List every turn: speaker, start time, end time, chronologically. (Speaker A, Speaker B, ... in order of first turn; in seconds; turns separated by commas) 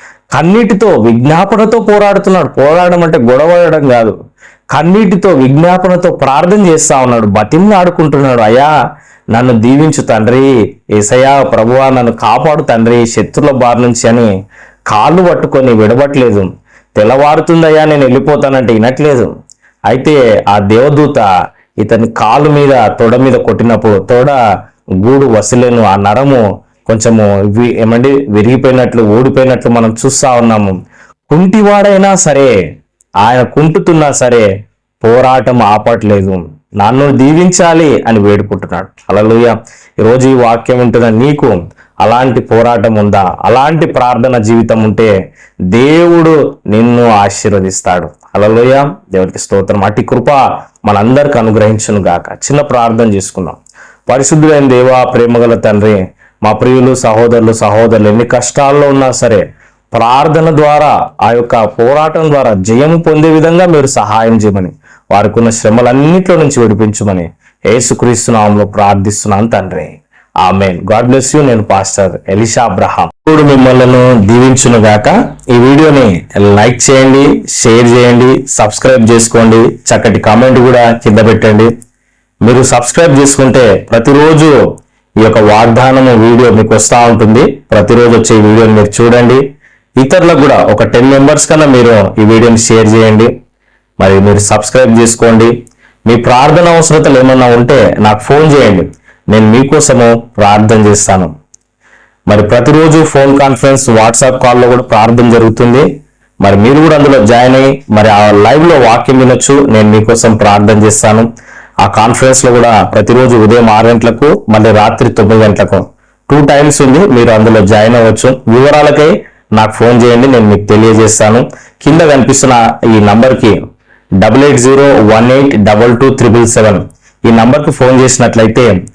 Speaker A: 0.3-4.2, Speaker A: 4.7-8.7, Speaker A: 9.3-14.3, Speaker A: 14.9-19.3, Speaker A: 19.9-21.3, Speaker A: 21.8-24.4, Speaker A: 25.0-30.8, Speaker A: 31.3-32.5, Speaker A: 33.2-34.5, Speaker A: 35.0-45.1, Speaker A: 45.7-81.7, Speaker A: 82.5-84.5, Speaker A: 85.2-89.4, Speaker A: 90.0-93.3, Speaker A: 94.0-95.5, Speaker A: 96.1-101.3, Speaker A: 102.3-105.8, Speaker A: 106.4-111.3, Speaker A: 111.8-123.6, Speaker A: 124.2-128.7